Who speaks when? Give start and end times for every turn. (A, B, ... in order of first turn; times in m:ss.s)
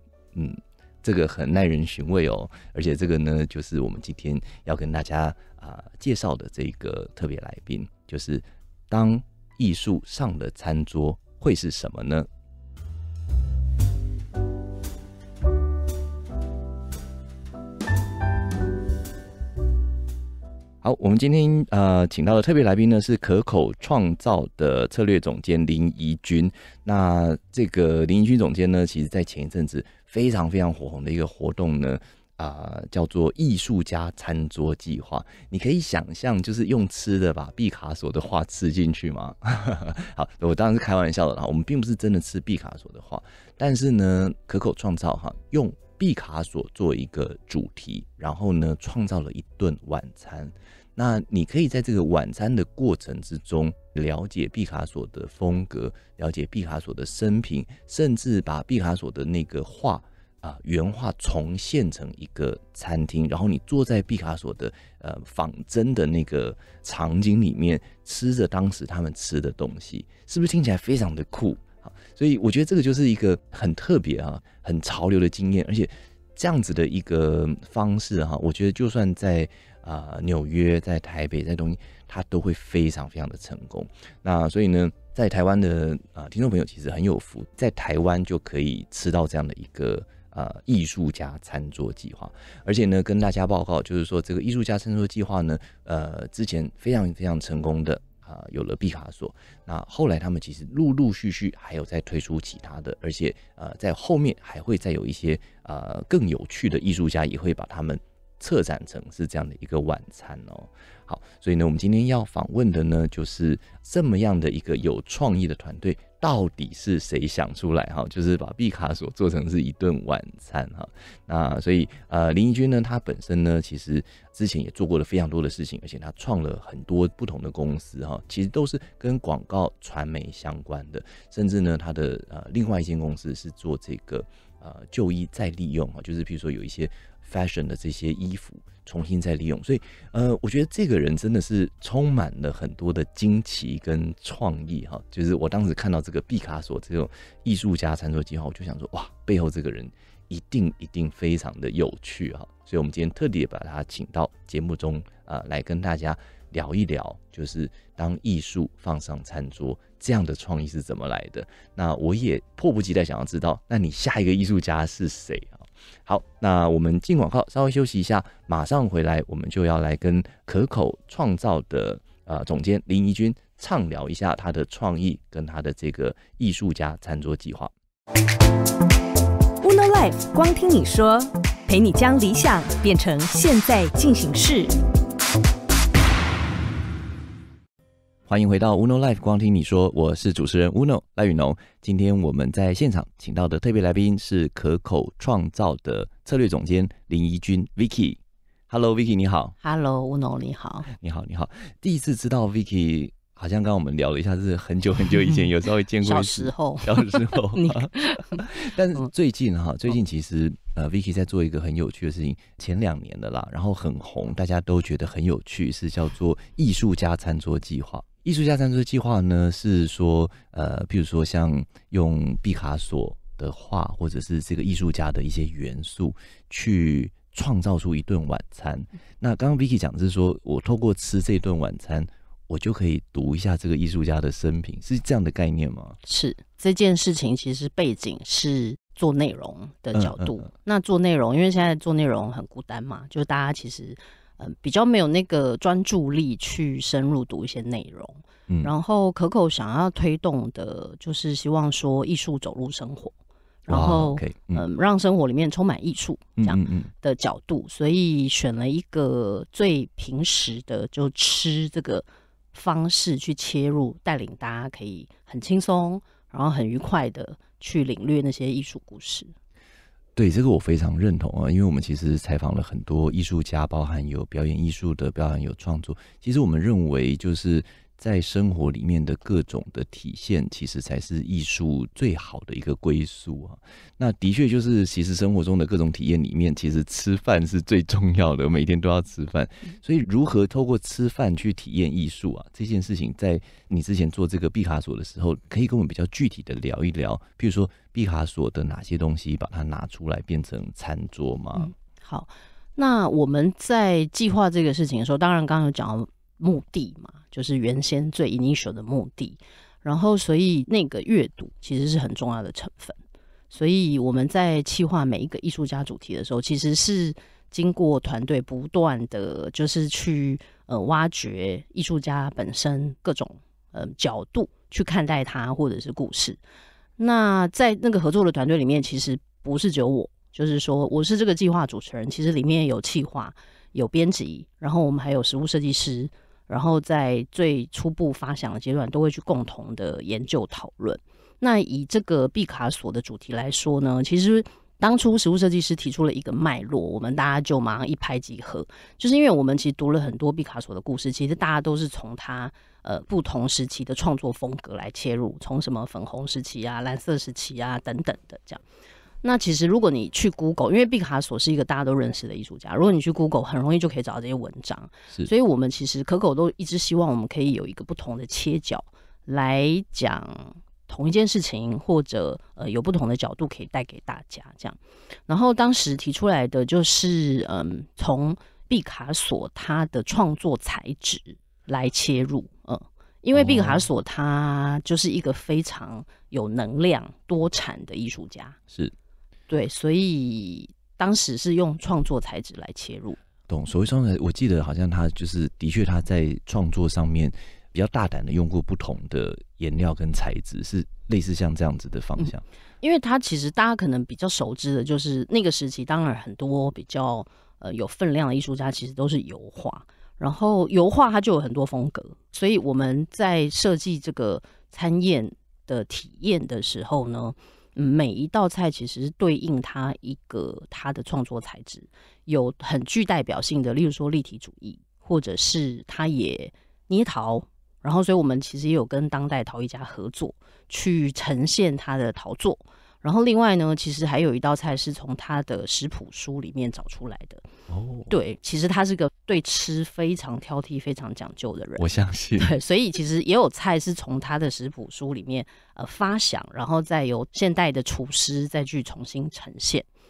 0:00.3-0:12.3 A
0:20.8-2:57.7 A
2:59.6-3:04.8 B
3:08.3-3:19.6 A
3:19.6-3:20.9 C
3:20.9-3:56.0 A
3:26.0-3:28.4 C
3:56.0-4:13.1 C
3:59.9-4:00.5 A
4:13.6-4:29.3 C
4:13.7-4:14.6 A
4:16.4-4:16.9 A
4:30.2-5:01.7 A
5:01.6-5:13.0 C
5:13.5-5:26.4 C
5:27.0-5:58.6 C
5:59.2-6:28.6 C
6:23.3-6:23.9 A
6:29.5-6:33.2 C
6:33.5-6:42.4 A
6:42.2-7:17.4 C
7:17.7-7:18.1 A
7:18.1-7:21.8 C
7:21.8-7:22.5 A
7:22.4-7:29.9 C